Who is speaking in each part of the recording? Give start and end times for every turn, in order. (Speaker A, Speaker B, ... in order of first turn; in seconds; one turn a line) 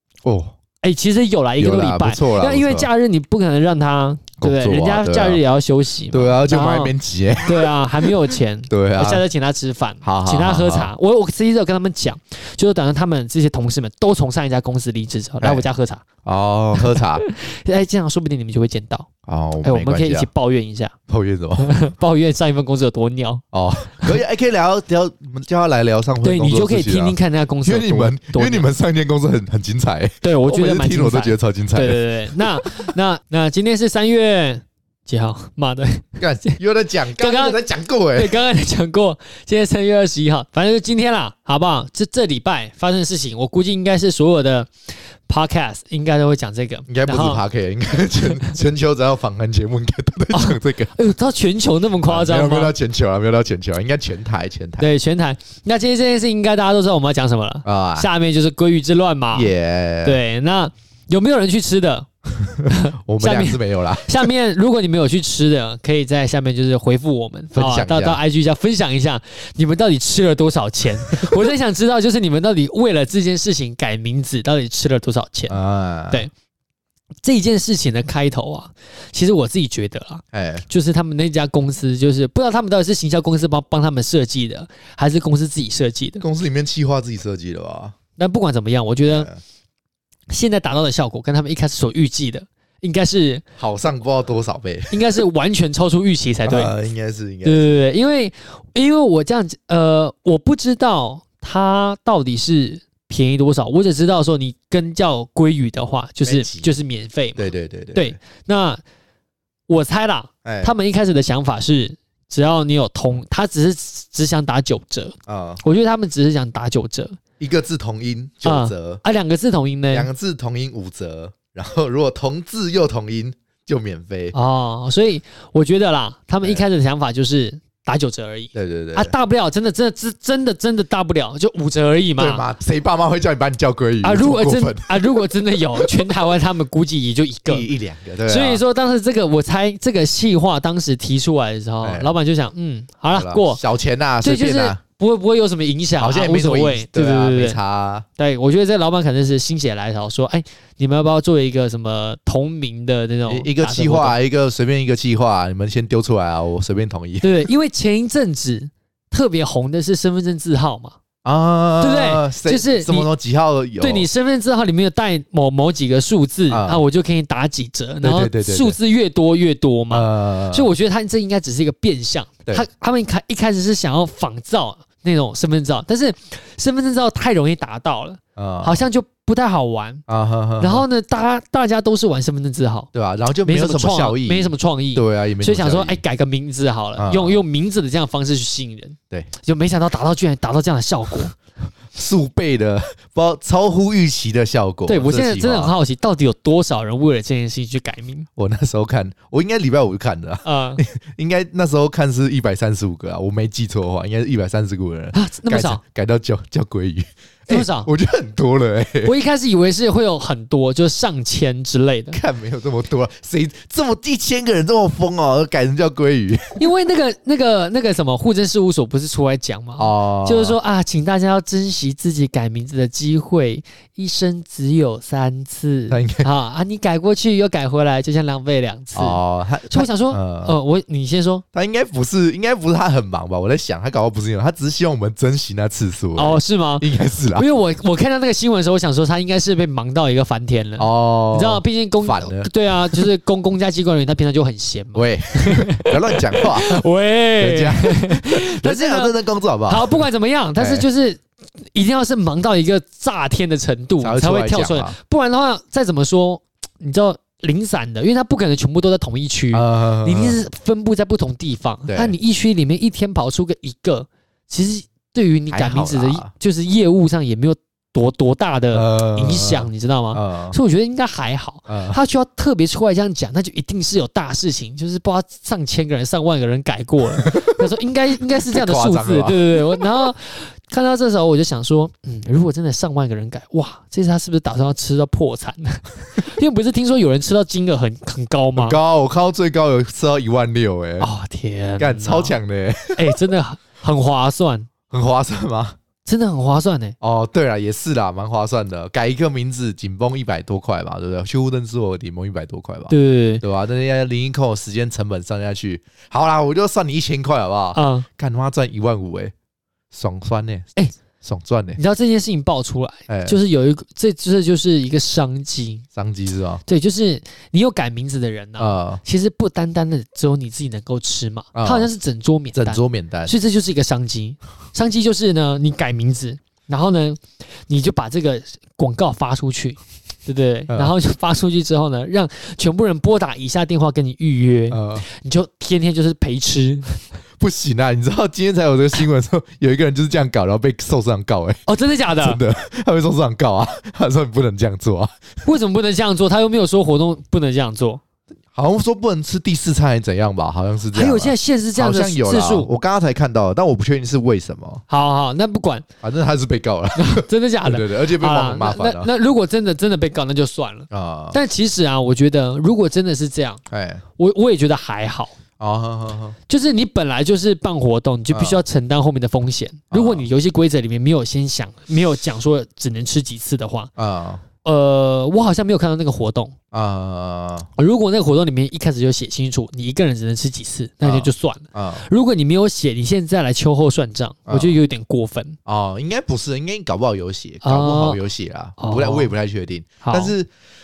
Speaker A: 0.2-0.5
Speaker B: 0.8-6.9
Speaker A: 1.6-2.9
Speaker A: 4.4-5.4
Speaker A: 6.1-8.1
Speaker B: 7.4-16.0
Speaker A: 8.7-9.2
Speaker A: 10.0-10.9
Speaker A: 16.2-17.2
Speaker B: 16.8-19.1
Speaker A: 19.2-20.3
Speaker B: 19.6-20.9
Speaker A: 21.1-21.8
Speaker B: 21.6-23.4
Speaker A: 23.5-32.9
Speaker B: 26.2-28.7
Speaker B: 30.2-36.6
Speaker A: 36.2-38.3
Speaker B: 37.2-37.6
Speaker B: 38.1-44.7
Speaker B: 45.3-47.4
Speaker A: 46.9-50.9
Speaker B: 50.3-52.7
Speaker A: 52.0-54.9
Speaker B: 54.8-59.5
Speaker A: 57.6-58.1
Speaker A: 59.3-60.2
Speaker B: 60.0-62.1
Speaker A: 62.4-64.3
Speaker B: 62.7-75.6
Speaker A: 67.5-68.2
Speaker A: 75.5-76.2
Speaker B: 77.2-86.2
Speaker A: 80.3-80.6
Speaker A: 86.2-87.9
Speaker B: 88.2-89.3
Speaker A: 89.0-89.4
Speaker B: 90.3-93.4
Speaker A: 93.6-95.0
Speaker B: 94.9-96.7
Speaker A: 96.5-97.8
Speaker B: 97.4-108.8
Speaker A: 106.2-106.7
Speaker A: 107.3-108.2
Speaker B: 109.7-117.2
Speaker A: 110.4-110.7
Speaker A: 115.3-115.6
Speaker A: 117.4-119.0
Speaker B: 118.4-120.1
Speaker A: 119.9-124.3
Speaker B: 124.3-132.4
Speaker A: 128.5-129.1
Speaker A: 132.2-136.0
Speaker B: 134.0-137.7
Speaker A: 137.5-138.6
Speaker B: 138.3-143.6
Speaker A: 141.8-142.1
Speaker A: 143.1-144.8
Speaker B: 144.2-147.6
Speaker A: 146.0-148.1
Speaker B: 148.2-154.2
Speaker A: 153.3-157.3
Speaker B: 157.2-160.9
Speaker A: 161.2-164.1
Speaker B: 161.8-163.1
Speaker B: 163.8-180.0
Speaker A: 166.5-166.8
Speaker A: 168.0-168.8
Speaker A: 169.9-170.7
Speaker A: 178.3-178.8
Speaker A: 180.1-180.8
Speaker B: 180.6-182.9
Speaker A: 182.9-186.0
Speaker B: 183.4-191.3
Speaker A: 187.0-187.4
Speaker A: 191.9-195.7
Speaker B: 194.9-198.3
Speaker A: 198.3-209.1
Speaker B: 200.4-200.8
Speaker B: 205.1-205.8
Speaker B: 207.5-207.9
Speaker B: 209.0-212.2
Speaker A: 212.1-216.5
Speaker B: 216.6-229.2
Speaker A: 219.8-220.6
Speaker A: 225.9-226.3
Speaker A: 228.9-230.5
Speaker B: 229.7-231.4
Speaker A: 231.5-237.5
Speaker B: 236.2-249.1
Speaker A: 240.8-243.1
Speaker A: 244.9-246.8
Speaker A: 247.4-250.9
Speaker B: 249.7-251.2
Speaker B: 251.7-288.8
Speaker A: 254.0-254.9
Speaker A: 259.5-260.4
Speaker A: 261.9-262.1
Speaker A: 265.5-266.3
Speaker A: 268.7-270.6
Speaker A: 271.7-272.0
Speaker A: 277.2-277.6
Speaker A: 278.5-279.8
Speaker A: 288.6-291.1
Speaker B: 291.0-292.4
Speaker A: 291.8-293.1
Speaker B: 292.9-294.7
Speaker A: 294.9-295.8
Speaker B: 296.0-296.9
Speaker A: 297.0-309.3
Speaker B: 302.9-303.4
Speaker B: 307.7-308.1
Speaker A: 309.9-311.8
Speaker B: 311.8-315.8
Speaker A: 313.1-313.4
Speaker A: 315.9-316.6
Speaker B: 316.6-337.0
Speaker A: 318.6-319.0
Speaker A: 321.5-321.9
Speaker A: 322.5-323.3
Speaker A: 330.7-330.9
Speaker A: 334.7-335.0
Speaker A: 337.4-341.6
Speaker B: 341.6-342.4
Speaker A: 342.1-345.1
Speaker B: 345.4-348.0
Speaker A: 348.5-354.8
Speaker B: 350.9-352.7
Speaker B: 354.9-355.9
Speaker A: 356.0-359.1
Speaker B: 356.9-363.6
Speaker A: 360.9-361.4
Speaker A: 363.7-364.0
Speaker B: 364.2-365.4
Speaker A: 365.6-366.4
Speaker B: 366.5-373.9
Speaker A: 368.3-368.6
Speaker A: 369.9-370.3
Speaker A: 374.0-374.4
Speaker B: 374.6-376.5
Speaker A: 376.7-377.7
Speaker B: 377.8-385.6
Speaker A: 381.0-382.1
Speaker A: 384.5-384.8
Speaker A: 385.6-390.5
Speaker B: 387.6-388.2
Speaker B: 388.8-389.3
Speaker B: 390.0-390.3